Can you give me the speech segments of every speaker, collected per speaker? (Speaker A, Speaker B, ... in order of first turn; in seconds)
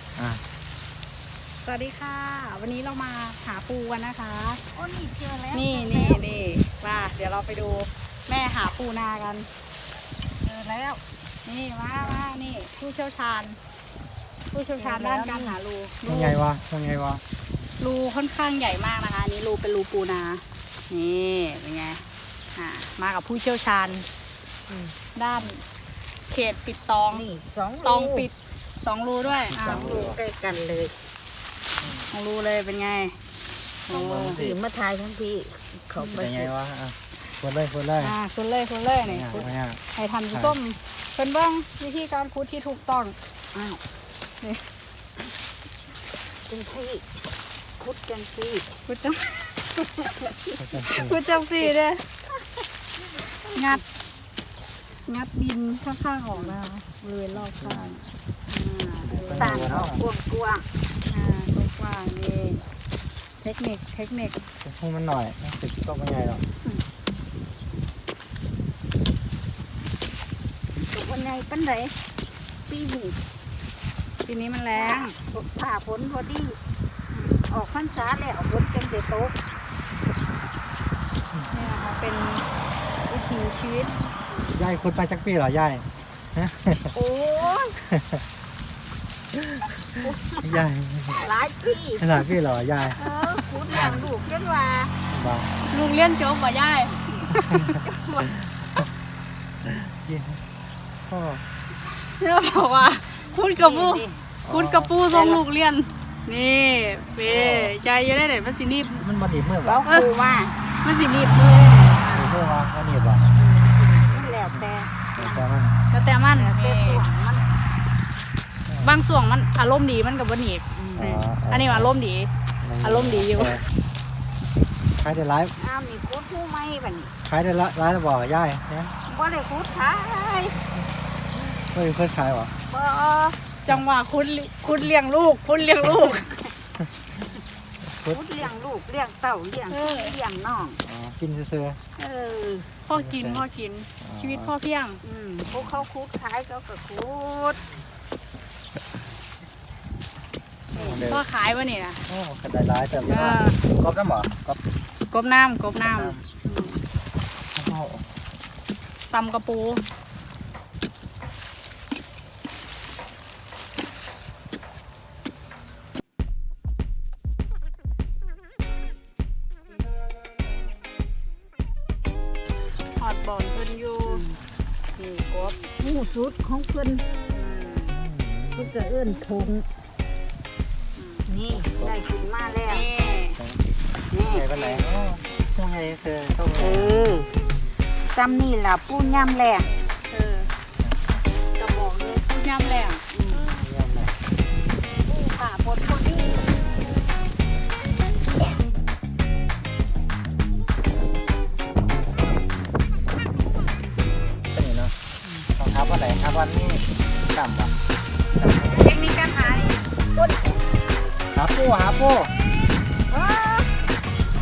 Speaker A: 0.1-0.4, 16.0-17.2, 29.2-30.2, 31.8-32.1, 33.9-34.6, 36.1-38.1, 39.0-39.8, 50.6-51.2, 57.3-57.9, 59.0-60.0, 64.6-66.4, 83.8-86.9, 87.9-88.2, 89.3-89.6, 90.4-91.2, 92.0-93.0, 93.8-94.0, 95.1-95.5, 99.6-100.4, 101.1-101.4, 104.4-104.9, 107.2-107.7, 109.0-109.9, 112.1-113.3, 115.2-115.8, 121.0-121.9, 122.6-123.7, 124.9-125.5, 127.2-128.9, 131.5-132.5, 137.8-138.2, 140.8-141.8, 142.9-143.4, 144.0-144.5, 150.7-151.2, 152.1-154.6, 155.8-156.2, 157.5-158.1, 177.9-178.7, 181.6-181.9, 183.4-187.0, 190.8-191.2, 193.5-194.1, 204.5-204.9, 205.5-207.7, 208.3-208.9, 211.3-212.3
Speaker B: 1.6-4.6, 5.5-9.5, 11.4-13.6, 14.5-16.4, 17.8-22.0, 22.6-24.1, 25.1-25.6, 26.3-27.2, 27.8-29.9, 32.1-33.2, 33.9-34.4, 38.0-43.1, 44.4-44.6, 48.9-49.3, 50.8-52.0, 53.5-53.8, 55.0-59.6, 61.1-62.6, 63.4-64.3, 74.2-75.2, 81.5-82.5, 83.1-83.9, 95.6-97.7, 101.9-109.0, 110.8-112.3, 113.4-113.7, 115.9-117.1, 118.8-123.6, 133.7-136.3, 139.7-140.1, 142.8-145.0, 151.0-152.0, 153.1-153.6, 155.1-156.8, 159.1-159.8, 172.9-174.2, 174.9-175.6, 177.3-178.0, 180.9-181.3, 182.7-183.4, 184.5-184.8, 190.1-190.5, 191.6-193.5
Speaker C: 4.7-6.2, 10.4-11.0, 14.8-15.6, 27.1-28.3, 29.6-30.9, 33.9-36.5, 43.5-43.8, 46.5-47.2, 47.8-48.7, 53.2-53.8, 59.4-60.6, 70.9-72.0, 72.7-73.2, 74.8-76.6, 77.4-79.3, 86.9-87.8, 90.0-90.6, 91.2-92.1, 92.9-94.9, 97.6-98.3, 103.6-104.2, 105.1-105.4, 109.6-110.6, 113.8-115.4, 116.3-117.6, 120.8-121.0, 125.6-127.1, 129.1-130.6, 132.7-133.4, 138.1-140.8, 142.0-142.7, 145.0-147.7, 150.8-151.0, 174.1-174.4, 175.8-177.0, 178.6-179.7, 181.2-182.9, 184.1-184.5, 186.6-187.3, 188.1-189.7, 193.1-193.4, 195.1-196.4, 208.7-210.5, 213.1-213.8